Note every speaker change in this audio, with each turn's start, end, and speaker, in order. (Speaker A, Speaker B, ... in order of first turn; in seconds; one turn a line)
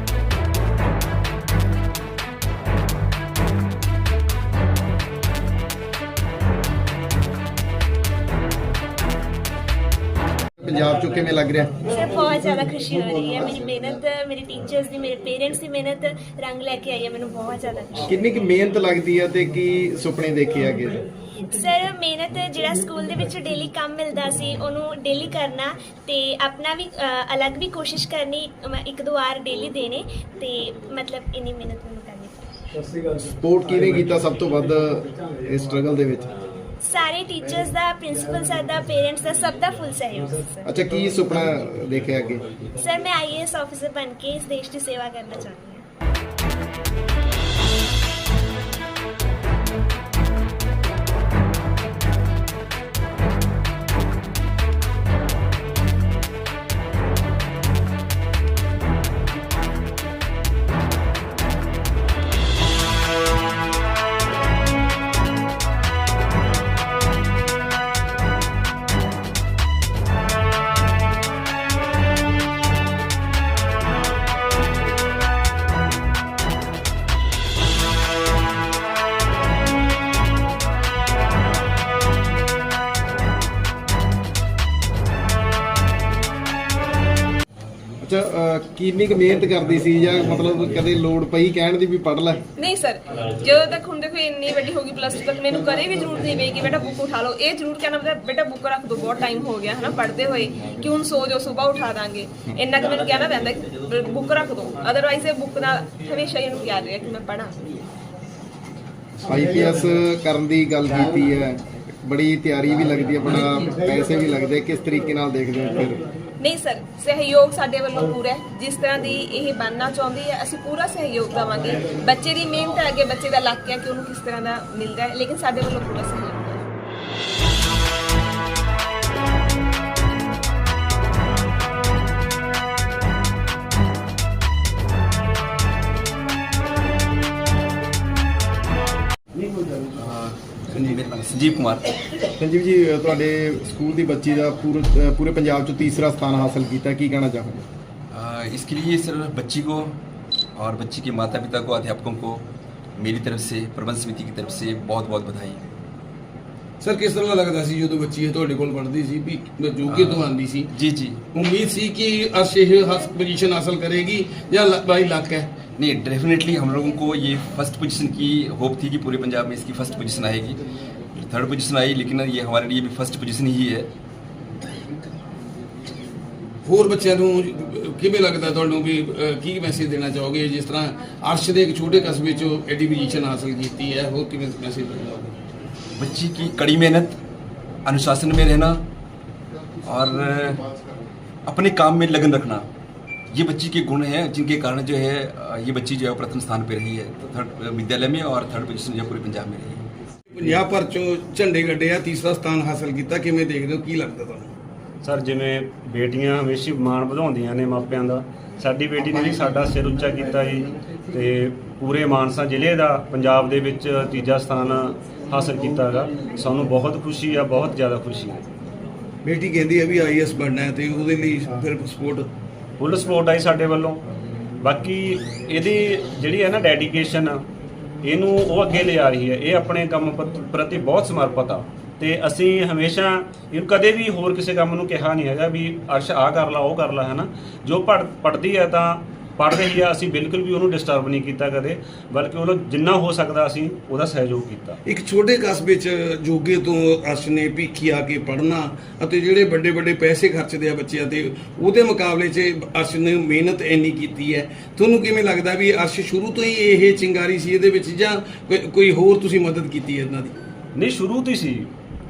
Speaker A: 10.6-11.7
Speaker B: 11.8-18.1
Speaker A: 18.1-21.0
Speaker B: 21.5-32.5
Speaker A: 33.3-36.3
Speaker B: 36.8-40.6
Speaker A: 40.6-42.4
Speaker B: 42.8-45.8
Speaker A: 88.0-92.4
Speaker C: 92.6-107.5
Speaker A: 109.2-116.1
Speaker C: 116.4-126.6
Speaker D: 139.4-139.8
Speaker E: 140.0-141.9
Speaker A: 142.4-147.6
Speaker E: 148.1-150.0
Speaker E: 150.6-155.7
Speaker D: 156.8-160.7
Speaker E: 159.9-161.2
Speaker D: 161.3-165.6
Speaker E: 165.8-173.9
Speaker D: 176.7-185.3
Speaker E: 186.0-187.2
Speaker E: 187.8-188.8
Speaker E: 189.8-190.7
Speaker E: 191.5-192.7
Speaker E: 193.3-199.8
Speaker D: 200.3-204.5
Speaker F: 205.0-218.5
Speaker D: 219.2-222.3
Speaker F: 222.8-224.0
Speaker F: 224.6-227.4
Speaker F: 228.0-244.8
Speaker D: 244.9-260.4
Speaker F: 260.8-261.7